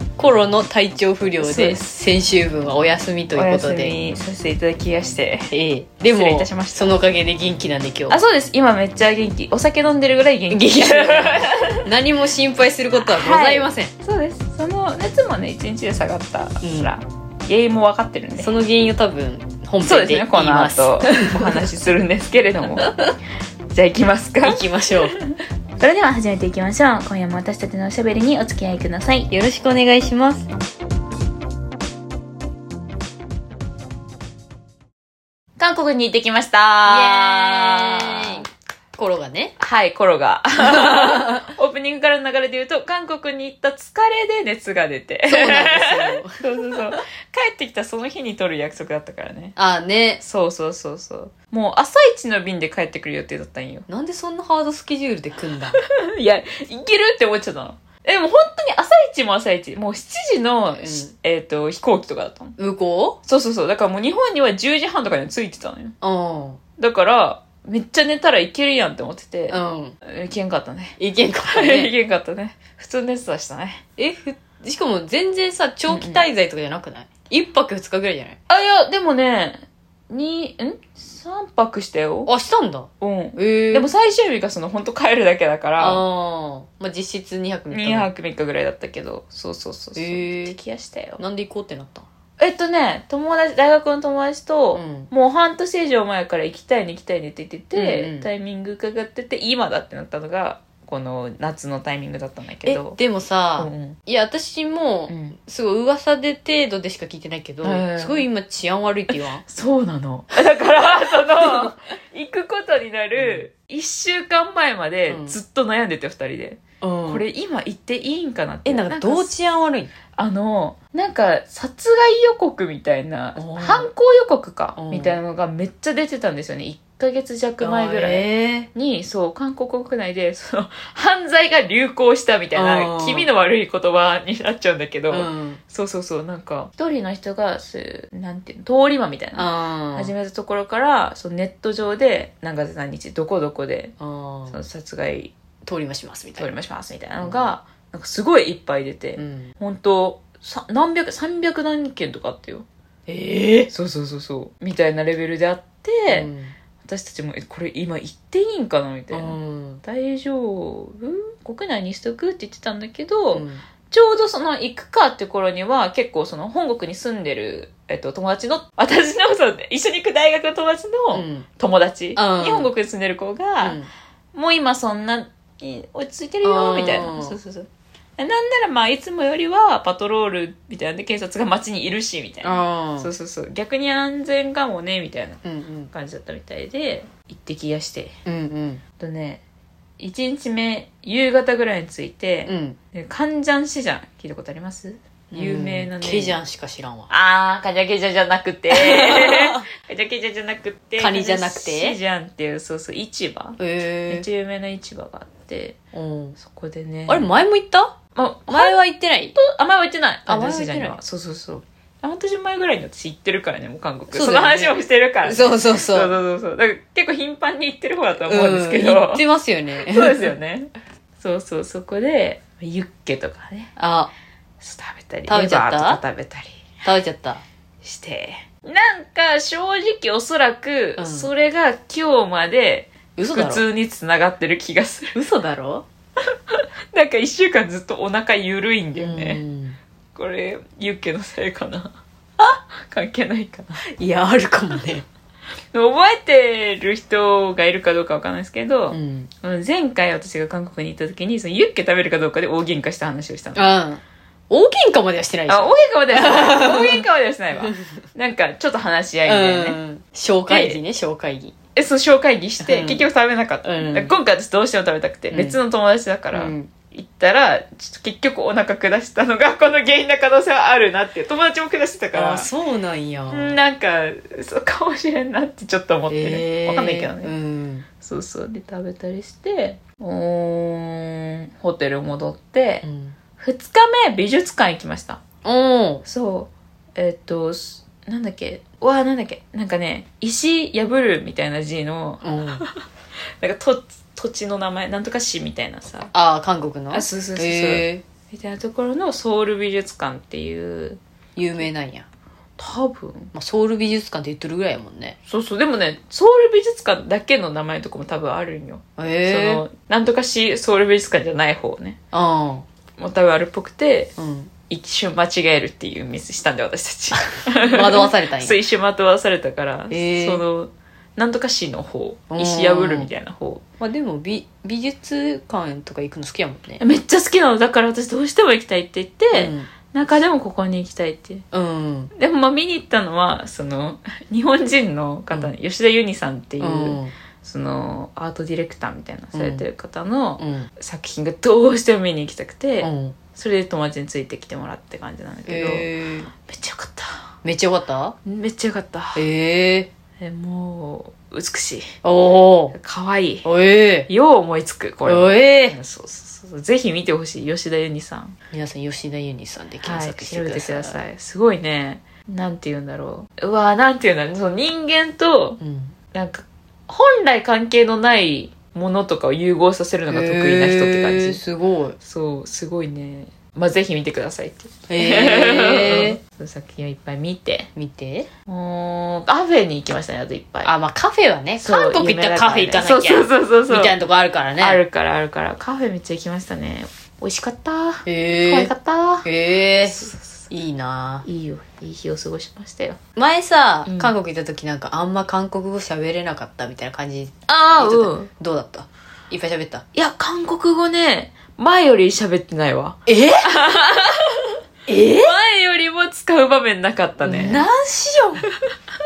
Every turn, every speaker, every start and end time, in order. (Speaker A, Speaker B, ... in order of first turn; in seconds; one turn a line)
Speaker A: 0.2-3.9
Speaker B: 1.4-1.8
Speaker B: 3.4-5.5
Speaker A: 5.5-8.2
Speaker B: 6.1-7.0
Speaker B: 8.1-11.8
Speaker A: 10.5-13.9
Speaker B: 13.0-18.6
Speaker A: 16.6-16.9
Speaker A: 18.4-21.7
Speaker B: 19.8-23.1
Speaker B: 23.7-25.2
Speaker A: 24.4-25.1
Speaker B: 25.8-29.3
Speaker A: 29.3-30.5
Speaker B: 35.6-38.5
Speaker A: 36.9-39.6
Speaker B: 39.6-49.6
Speaker A: 40.6-41.5
Speaker A: 45.3-46.4
Speaker A: 49.6-50.2
Speaker B: 50.2-53.9
Speaker A: 53.9-55.8
Speaker B: 55.7-62.5
Speaker A: 60.8-61.1
Speaker A: 62.6-63.2
Speaker B: 63.3-66.0
Speaker A: 66.0-66.6
Speaker B: 66.8-73.8
Speaker A: 69.5-70.0
Speaker A: 71.0-71.9
Speaker A: 74.0-78.4
Speaker B: 75.9-76.2
Speaker B: 78.5-82.3
Speaker A: 82.3-83.9
Speaker B: 83.0-86.0
Speaker A: 85.8-88.1
Speaker B: 87.7-91.2
Speaker A: 90.0-90.6
Speaker A: 91.2-92.1
Speaker B: 92.4-103.0
Speaker A: 94.7-95.1
Speaker A: 97.8-98.3
Speaker A: 102.7-109.4
Speaker B: 103.6-104.0
Speaker B: 105.1-105.4
Speaker B: 107.6-108.3
Speaker B: 109.1-119.3
Speaker A: 111.4-111.7
Speaker A: 113.2-113.5
Speaker A: 115.1-115.4
Speaker A: 116.8-117.2
Speaker A: 118.7-119.9
Speaker B: 120.2-143.9
Speaker A: 123.4-123.9
Speaker A: 124.8-125.2
Speaker A: 127.6-128.7
Speaker A: 132.5-133.3
Speaker A: 135.1-135.6
Speaker A: 139.4-140.1
Speaker A: 144.0-144.6
Speaker B: 144.5-145.3
Speaker A: 145.7-146.5
Speaker B: 146.4-152.7
Speaker A: 147.2-147.5
Speaker A: 149.2-149.5
Speaker A: 153.1-153.7
Speaker B: 153.7-156.3
Speaker A: 156.1-156.6
Speaker B: 156.8-173.8
Speaker A: 159.1-159.8
Speaker A: 163.3-163.6
Speaker A: 171.1-171.4
Speaker A: 172.2-172.7
Speaker A: 173.6-173.9
Speaker B: 174.3-188.1
Speaker A: 176.4-177.4
Speaker A: 182.4-183.1
Speaker A: 185.4-185.9
Speaker A: 188.3-188.8
Speaker B: 189.0-189.4
Speaker B: 190.0-196.4
Speaker A: 192.5-192.8
Speaker A: 195.3-197.1
Speaker B: 197.1-205.8
Speaker A: 198.7-199.7
Speaker A: 201.0-202.0
Speaker A: 203.6-204.3
Speaker A: 205.9-206.4
Speaker B: 206.4-207.3
Speaker A: 207.1-208.0
Speaker B: 208.2-208.8
Speaker A: 208.5-209.4
Speaker B: 209.4-219.2
Speaker A: 210.3-211.0
Speaker A: 214.1-216.1
Speaker A: 218.3-220.3
Speaker B: 219.8-223.7
Speaker A: 223.8-224.1
Speaker B: 224.6-226.8
Speaker A: 225.3-226.0
Speaker A: 226.8-227.4
Speaker B: 227.8-235.2
Speaker A: 231.0-231.3
Speaker A: 233.2-233.6
Speaker A: 235.2-235.8
Speaker B: 236.5-239.4
Speaker A: 238.9-239.8
Speaker B: 240.2-243.8
Speaker A: 244.0-245.1
Speaker B: 245.7-253.7
Speaker A: 248.9-249.3
Speaker A: 253.6-257.1
Speaker B: 255.5-259.8
Speaker A: 257.6-257.9
Speaker A: 259.3-261.5
Speaker B: 260.5-260.8
Speaker B: 261.8-272.5
Speaker A: 262.6-263.1
Speaker A: 263.6-264.1
Speaker A: 265.3-265.6
Speaker A: 266.3-266.7
Speaker A: 272.1-273.6
Speaker B: 273.3-277.3
Speaker A: 276.1-277.9
Speaker B: 278.0-282.8
Speaker A: 282.8-283.2
Speaker B: 283.4-285.2
Speaker A: 285.4-286.1
Speaker B: 286.1-292.8
Speaker A: 292.2-292.6
Speaker B: 293.4-296.1
Speaker A: 296.1-298.0
Speaker B: 296.9-301.0
Speaker A: 301.4-302.1
Speaker B: 302.6-303.3
Speaker A: 303.3-305.2
Speaker B: 305.3-312.0
Speaker A: 309.0-309.6
Speaker A: 312.1-312.6
Speaker B: 313.0-314.1
Speaker A: 314.2-314.5
Speaker B: 314.7-323.6
Speaker A: 317.2-318.6
Speaker A: 319.9-320.4
Speaker A: 322.3-323.1
Speaker A: 323.8-326.8
Speaker B: 326.8-331.4
Speaker A: 329.3-329.7
Speaker A: 331.5-332.1
Speaker B: 332.1-345.9
Speaker A: 336.6-337.1
Speaker A: 339.3-339.7
Speaker A: 340.4-340.7
Speaker A: 342.8-343.2
Speaker A: 345.5-346.3
Speaker B: 346.5-347.2
Speaker A: 347.4-348.1
Speaker B: 348.2-349.2
Speaker A: 349.1-349.9
Speaker B: 350.2-351.9
Speaker A: 352.0-352.8
Speaker B: 352.7-353.4
Speaker A: 353.4-354.1
Speaker B: 354.1-358.4
Speaker A: 355.1-355.8
Speaker A: 358.5-361.0
Speaker B: 359.8-365.6
Speaker A: 365.6-365.9
Speaker B: 366.1-371.4
Speaker A: 370.1-372.0
Speaker B: 372.0-377.7
Speaker A: 374.9-376.2
Speaker A: 377.8-378.3
Speaker B: 378.5-380.7
Speaker A: 380.6-384.8
Speaker B: 381.6-384.0
Speaker B: 384.6-389.3
Speaker A: 388.1-388.7
Speaker A: 389.2-391.3
Speaker B: 390.0-390.5
Speaker B: 391.2-393.0
Speaker A: 393.2-399.8
Speaker B: 393.9-394.1
Speaker B: 397.5-398.3
Speaker B: 399.9-404.6
Speaker A: 403.1-403.5
Speaker A: 404.9-405.4
Speaker B: 405.2-407.7
Speaker A: 407.2-408.4